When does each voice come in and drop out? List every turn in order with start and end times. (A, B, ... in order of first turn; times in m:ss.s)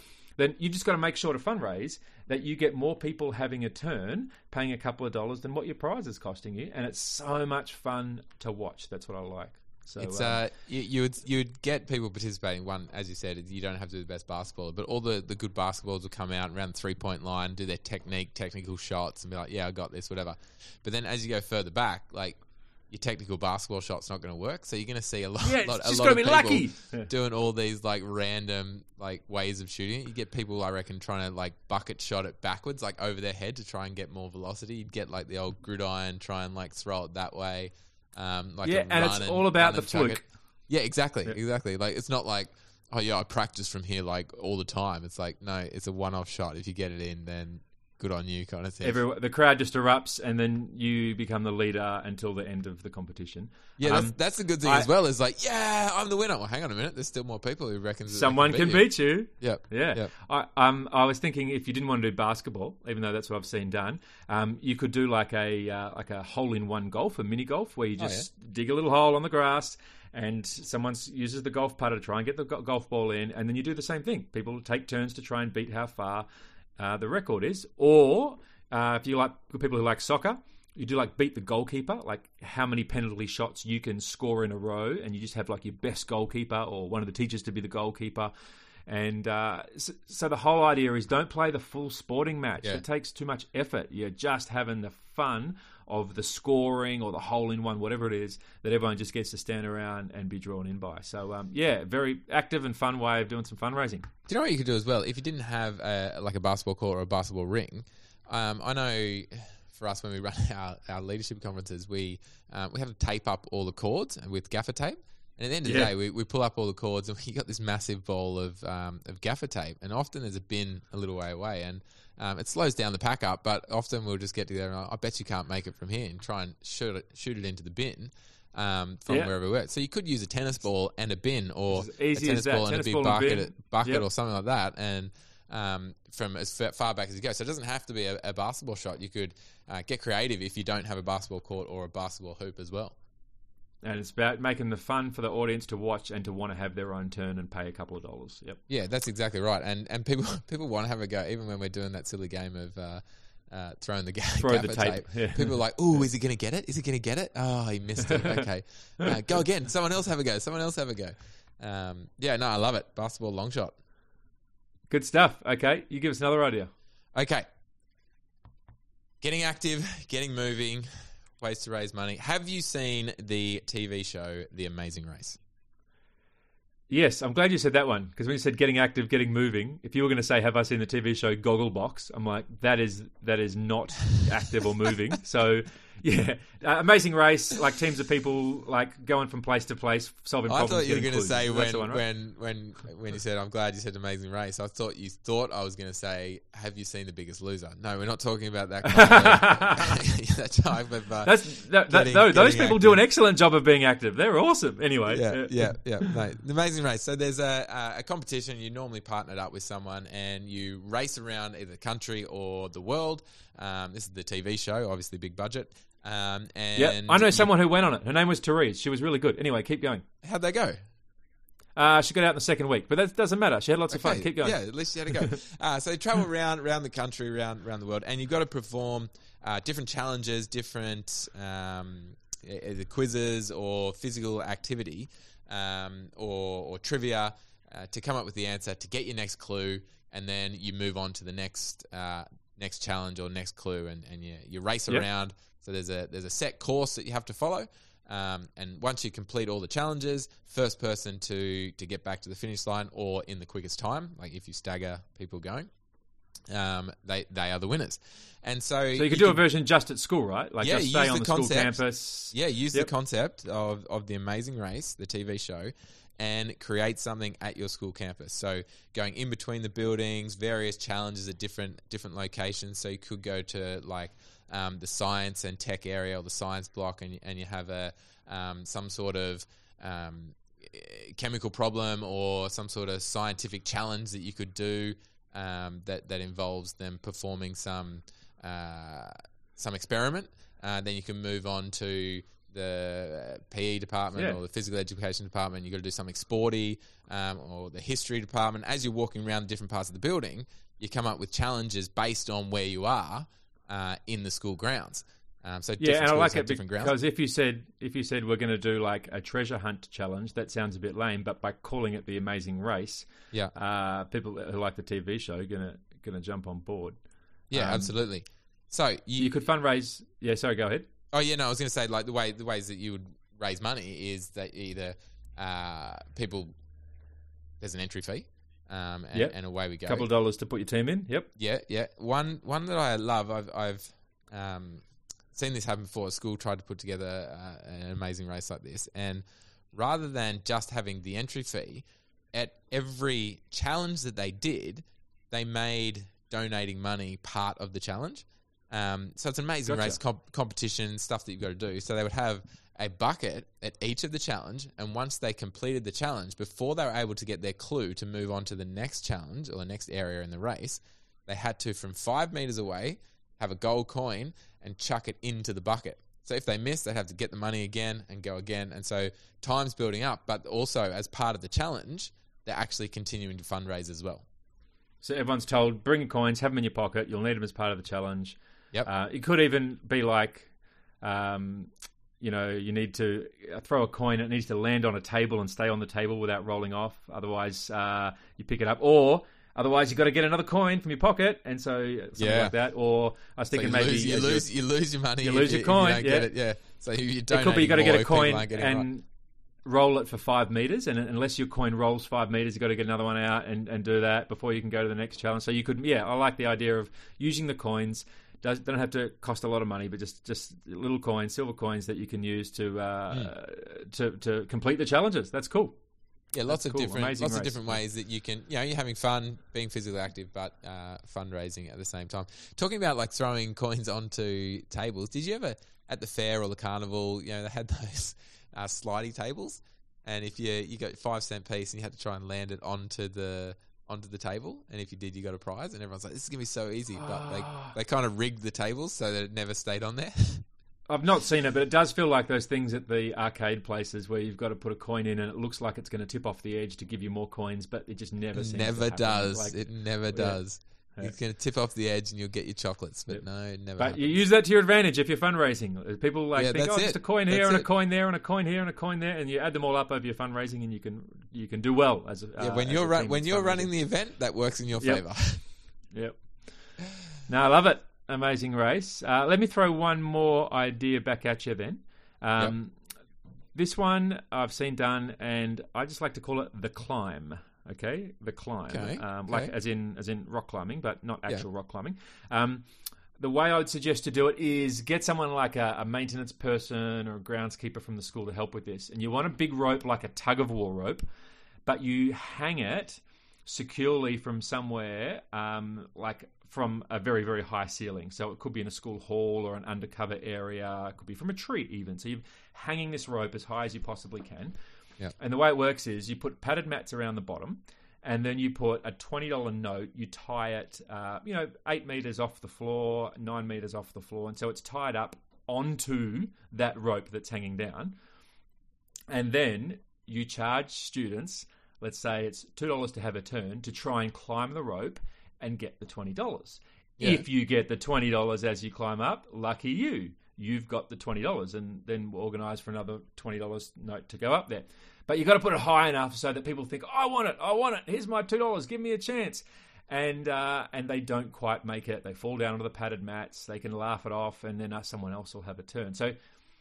0:00.4-0:10.4 A
0:10.0-0:49.0 B
0:25.4-0:27.1 A
0:38.6-0:40.3 A
0:48.8-0:54.9 A
0:53.8-1:00.1 B
0:58.1-1:16.3 A
1:08.0-1:08.3 B
1:16.8-1:28.3 A
1:28.9-1:44.1 A
1:44.3-2:23.0 B
1:55.6-1:55.9 A
2:11.7-2:14.1 A
2:23.8-2:28.6 A
2:28.7-2:43.7 B
2:34.4-2:35.6 A
2:38.0-2:38.5 A
2:44.9-2:46.7 A
2:47.2-2:47.4 B
2:49.2-2:55.4 B
2:56.9-3:12.0 A
3:10.5-3:23.0 B
3:18.9-3:20.0 A
3:21.2-3:26.2 A
3:25.1-3:37.5 B
3:36.8-3:40.0 A
3:40.2-3:40.8 B
3:41.8-3:45.4 A
3:43.9-4:15.7 B
4:16.5-4:19.4 B
4:19.0-4:22.9 A
4:20.6-5:07.0 B
5:05.8-5:17.0 A
5:17.5-5:17.9 A
5:17.5-5:19.5 B
5:19.2-5:20.9 A
5:21.1-5:26.5 B
5:27.6-5:30.1 B
5:29.1-5:31.3 A
5:31.4-6:14.2 B
5:49.7-5:50.0 A
6:15.0-6:34.5 A
6:32.2-6:32.6 B
6:33.5-6:38.9 B
6:35.2-6:36.3 A
6:37.3-6:39.0 A
6:39.6-6:55.8 A
6:56.3-7:20.4 B
6:56.5-6:57.8 A
7:17.0-7:17.8 A
7:20.9-7:30.4 A
7:28.3-7:34.2 B
7:33.1-7:43.8 A
7:36.4-7:37.7 B
7:42.4-7:45.4 B
7:44.8-7:45.1 A
7:45.9-7:46.3 A
7:47.3-7:52.8 A
7:53.5-8:02.7 A
7:58.7-7:59.5 B
8:03.2-8:11.0 A
8:11.7-8:24.6 A
8:25.2-8:37.9 A
8:39.1-9:06.2 A
8:47.0-8:47.2 B